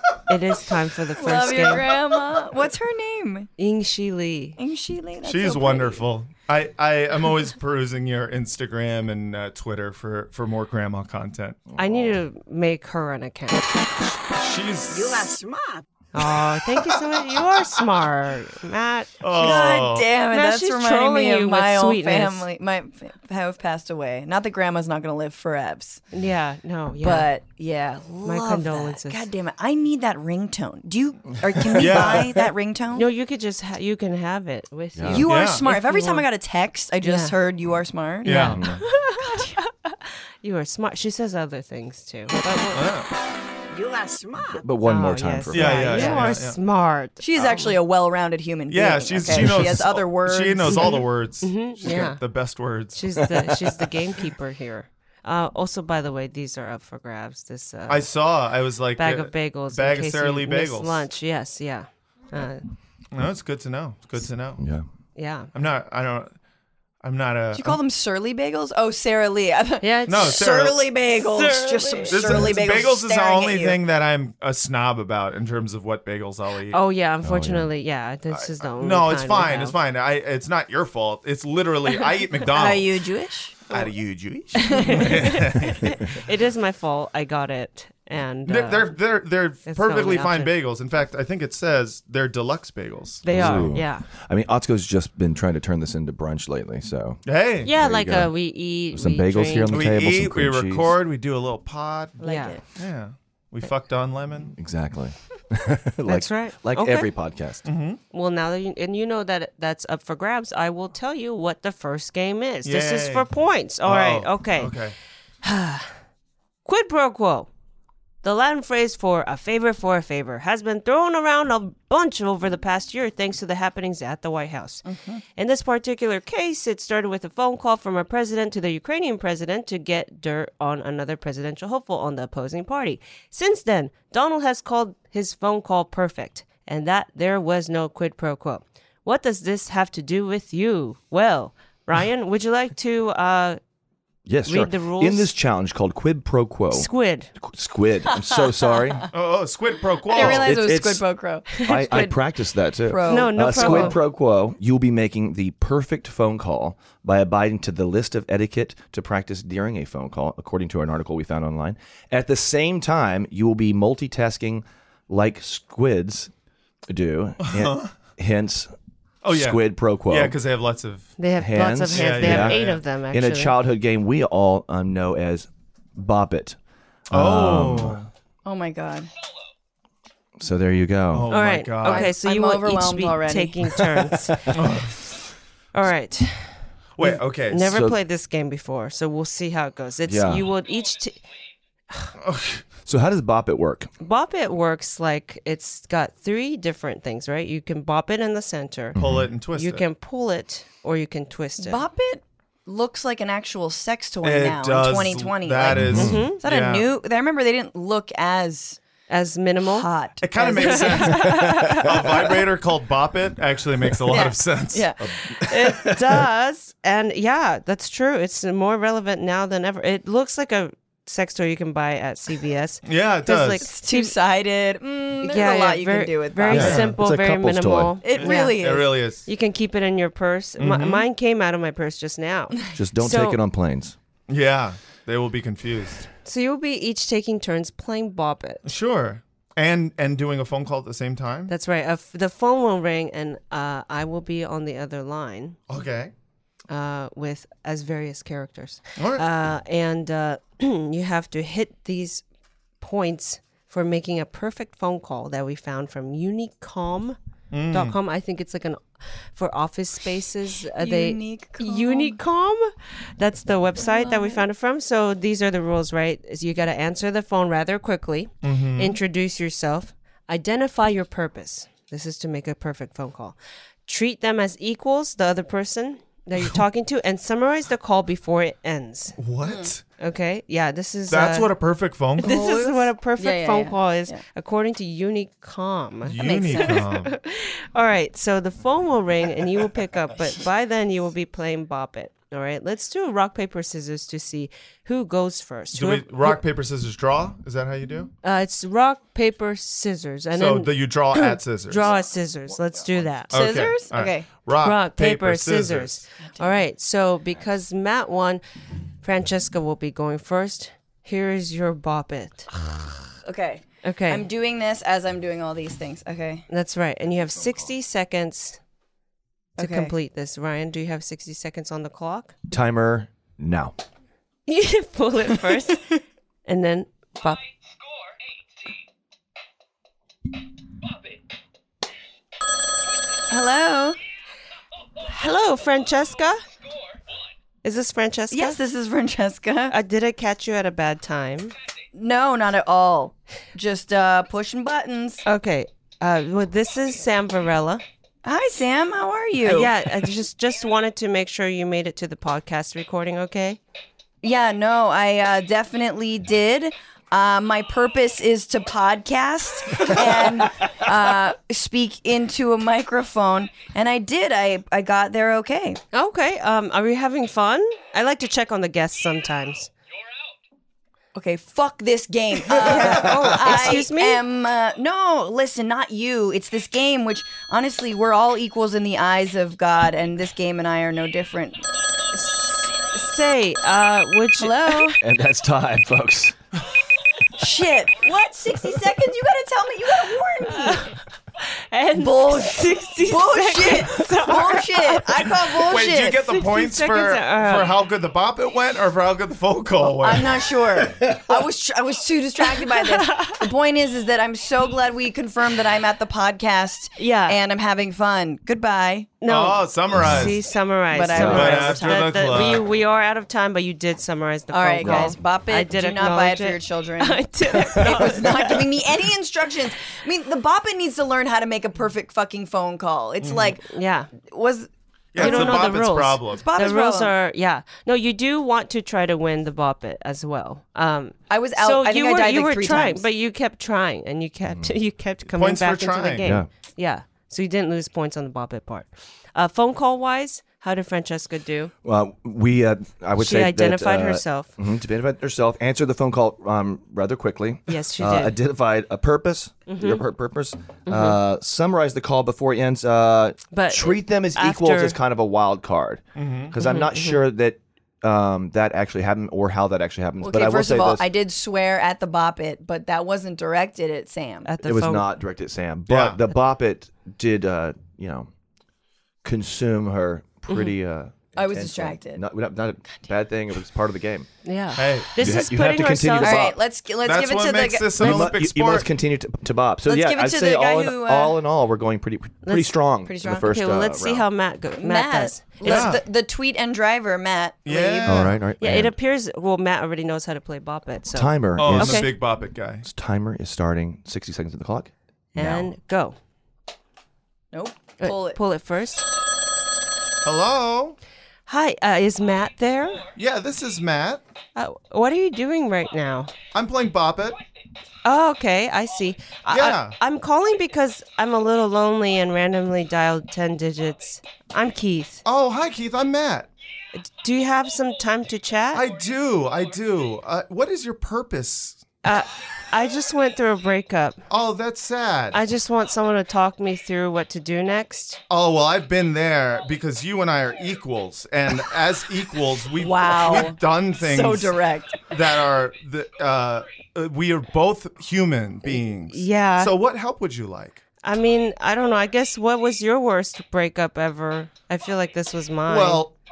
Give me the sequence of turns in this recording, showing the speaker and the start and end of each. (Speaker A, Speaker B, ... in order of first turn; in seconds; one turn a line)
Speaker A: 0.3-1.9
Speaker B: 1.2-3.5
Speaker A: 3.6-4.6
Speaker B: 4.6-6.0
Speaker C: 5.2-11.6
Speaker D: 11.7-12.2
Speaker A: 11.8-13.8
Speaker C: 14.4-15.3
Speaker E: 14.9-15.8
Speaker A: 16.1-19.1
Speaker C: 19.2-20.1
Speaker B: 19.4-26.1
Speaker A: 20.3-22.5
Speaker A: 26.1-27.3
Speaker B: 27.0-33.1
Speaker A: 28.2-29.3
Speaker C: 31.7-32.5
Speaker A: 32.9-36.3
Speaker D: 35.0-35.3
Speaker B: 35.1-39.6
Speaker C: 35.2-35.6
Speaker A: 37.0-37.4
Speaker C: 38.2-38.6
Speaker A: 38.3-42.9
Speaker D: 38.5-38.9
Speaker C: 42.7-43.1
Speaker E: 43.7-44.6
Speaker D: 44.6-46.4
Speaker A: 44.8-47.2
Speaker C: 45.5-46.6
Speaker B: 47.2-51.0
Speaker C: 47.4-47.6
Speaker C: 48.7-53.2
Speaker A: 51.4-52.2
Speaker A: 52.9-58.1
Speaker D: 53.2-53.9
Speaker C: 57.9-61.0
Speaker A: 59.0-62.6
Speaker C: 63.1-64.6
Speaker D: 64.6-64.8
Speaker A: 65.2-65.5
Speaker C: 65.5-66.3
Speaker C: 67.0-67.8
Speaker B: 67.5-73.8
Speaker A: 69.8-70.4
Speaker C: 70.1-70.8
Speaker A: 71.3-72.2
Speaker C: 72.1-76.8
Speaker A: 76.7-79.8
Speaker D: 77.2-77.7
Speaker C: 78.3-83.0
Speaker B: 82.5-83.8
Speaker C: 83.7-86.0
Speaker A: 84.7-88.9
Speaker B: 84.7-85.0
Speaker C: 88.5-93.8
Speaker A: 89.7-90.5
Speaker A: 93.2-94.1
Speaker D: 93.3-98.3
Speaker C: 97.2-97.7
Speaker A: 97.7-99.7
Speaker D: 98.9-100.9
Speaker C: 99.7-104.5
Speaker B: 102.2-102.6
Speaker A: 102.2-102.6
Speaker D: 104.5-107.7
Speaker A: 106.1-107.1
Speaker C: 107.7-108.0
Speaker A: 108.1-114.8
Speaker C: 112.7-113.3
Speaker C: 113.8-115.0
Speaker A: 115.4-115.9
Speaker A: 116.7-117.5
Speaker A: 118.2-124.8
Speaker B: 124.8-125.2
Speaker A: 125.4-143.6
Speaker D: 144.3-149.1
Speaker A: 144.5-145.3
Speaker A: 146.7-147.3
Speaker B: 148.2-148.5
Speaker C: 149.1-150.6
Speaker B: 150.1-154.0
Speaker D: 150.2-166.3
Speaker A: 151.6-151.8
Speaker A: 153.1-154.0
Speaker D: 166.9-168.7
Speaker C: 167.4-167.9
Speaker C: 169.2-171.1
Speaker D: 169.3-170.3
Speaker A: 171.2-173.6
Speaker D: 171.4-176.6
Speaker C: 171.9-172.8
Speaker D: 177.1-178.1
Speaker C: 177.1-178.1
Speaker B: 178.4-179.1
Speaker D: 180.4-181.3
Speaker C: 181.1-182.1
Speaker A: 181.3-184.4
Speaker B: 181.8-183.8
Speaker D: 184.3-184.6
Speaker C: 184.5-184.9
Speaker A: 185.7-191.2
Speaker C: 187.0-187.8
Speaker D: 187.7-188.0
Speaker D: 190.1-190.5
Speaker C: 192.2-192.6
Speaker D: 192.8-193.9
Speaker A: 194.0-199.0
Speaker D: 198.9-199.3
Speaker C: 198.9-199.8
Speaker A: 199.6-201.8
Speaker B: 201.6-208.8
Speaker C: 204.2-206.9
Speaker D: 205.7-206.3
Speaker A: 205.9-206.4
Speaker A: 209.1-209.9
Speaker B: 209.6-211.3
Speaker C: 210.2-214.9
Speaker A: 210.6-211.8
Speaker D: 211.2-211.9
Speaker B: 214.1-215.1
Speaker D: 215.4-215.9
Speaker A: 215.4-224.2
Speaker C: 222.8-223.6
Speaker B: 223.6-226.7
Speaker A: 225.2-228.6
Speaker D: 226.5-228.0
Speaker C: 226.5-227.0
Speaker B: 228.0-229.0
Speaker C: 228.1-229.2
Speaker A: 229.3-233.4
Speaker C: 230.6-231.1
Speaker D: 232.7-234.0
Speaker C: 234.3-236.1
Speaker A: 236.2-238.7
Speaker C: 238.7-241.5
Speaker A: 241.5-245.6
Speaker C: 245.7-246.1
Speaker A: 246.7-252.2
Speaker C: 249.0-249.2
Speaker A: 252.8-257.2
Speaker C: 257.5-258.0
Speaker A: 257.7-279.2
Speaker B: 260.8-262.2
Speaker B: 263.8-264.4
Speaker C: 268.4-269.0
Speaker C: 279.2-279.8
Speaker B: 279.4-279.7
Speaker A: 280.0-281.5
Speaker C: 281.1-282.3
Speaker B: 282.2-284.2
Speaker A: 282.2-296.4
Speaker C: 286.1-287.1
Speaker B: 286.2-286.8
Speaker C: 295.7-298.1
Speaker A: 298.2-303.3
Speaker C: 300.3-301.9
Speaker C: 303.3-306.0
Speaker B: 303.3-304.3
Speaker A: 304.6-308.4
Speaker B: 306.4-306.6
Speaker A: 309.0-312.5
Speaker B: 313.2-316.5
Speaker A: 313.8-314.3
Speaker A: 316.5-318.6
Speaker A: 319.6-322.4
Speaker B: 319.6-319.9
Speaker D: 322.5-323.8
Speaker A: 324.5-327.4
Speaker B: 333.3-334.0
Speaker A: 335.0-336.4
Speaker A: 337.6-338.6
Speaker B: 338.3-339.8
Speaker A: 339.7-341.6
Speaker B: 341.9-345.2
Speaker A: 345.2-347.8
Speaker B: 348.2-349.7
Speaker A: 349.4-353.6
Speaker B: 354.2-365.8
Speaker A: 365.9-369.7
Speaker B: 371.1-381.6
Speaker A: 372.6-374.2
Speaker A: 382.1-384.9
Speaker B: 384.4-385.0
Speaker D: 385.0-386.4
Speaker B: 387.3-390.9
Speaker A: 390.5-395.2
Speaker B: 391.9-396.2
Speaker C: 395.6-400.4
Speaker A: 396.2-397.7
Speaker B: 399.8-409.1
Speaker A: 402.6-403.4
Speaker A: 407.0-407.4
Speaker A: 409.2-418.6
Speaker C: 409.3-410.4
Speaker D: 409.9-410.2
Speaker B: 410.9-412.5
Speaker C: 411.1-412.6
Speaker B: 414.5-425.8
Speaker D: 414.8-415.1
Speaker C: 423.2-423.6
Speaker A: 423.6-424.1
Speaker C: 425.1-426.4
Speaker A: 425.2-441.7
Speaker B: 426.3-427.1
Speaker B: 431.3-433.1
Speaker C: 435.3-436.4
Speaker D: 441.8-461.1
Speaker A: 443.2-444.5
Speaker A: 447.7-448.4
Speaker A: 449.7-450.0
Speaker A: 450.9-451.2
Speaker A: 453.5-455.0
Speaker C: 456.2-456.5
Speaker A: 456.6-457.2
Speaker B: 460.2-464.5
Speaker A: 464.4-465.1
Speaker D: 464.6-468.3
Speaker C: 465.9-466.2
Speaker D: 469.2-474.3
Speaker A: 470.5-470.7
Speaker B: 471.4-472.2
Speaker A: 474.4-476.5
Speaker C: 474.8-475.4
Speaker D: 475.2-476.6
Speaker B: 476.2-478.3
Speaker C: 477.0-478.9
Speaker D: 478.0-484.3
Speaker B: 479.9-481.4
Speaker A: 482.4-482.8
Speaker B: 483.0-483.6
Speaker A: 483.4-485.9
Speaker B: 484.8-488.3
Speaker C: 485.6-486.0
Speaker C: 487.6-488.4
Speaker D: 488.1-488.9
Speaker A: 488.6-492.1
Speaker D: 491.1-492.2
Speaker C: 491.6-492.9
Speaker D: 492.9-495.7
Speaker A: 495.4-496.2
Speaker B: 497.5-498.4
Speaker A: 498.0-499.1
Speaker C: 500.2-501.0
Speaker A: 501.5-503.0
Speaker C: 503.2-504.2
Speaker A: 504.6-506.3
Speaker C: 506.5-507.4
Speaker A: 508.1-515.2
Speaker C: 509.5-510.0
Speaker C: 515.2-516.5
Speaker A: 517.0-518.9
Speaker C: 518.7-521.8
Speaker A: 522.0-524.2
Speaker C: 524.3-525.4
Speaker A: 525.3-528.2
Speaker C: 528.3-540.8
Speaker B: 532.8-535.0
Speaker A: 539.1-539.7
Speaker A: 541.0-546.0
Speaker C: 545.7-546.1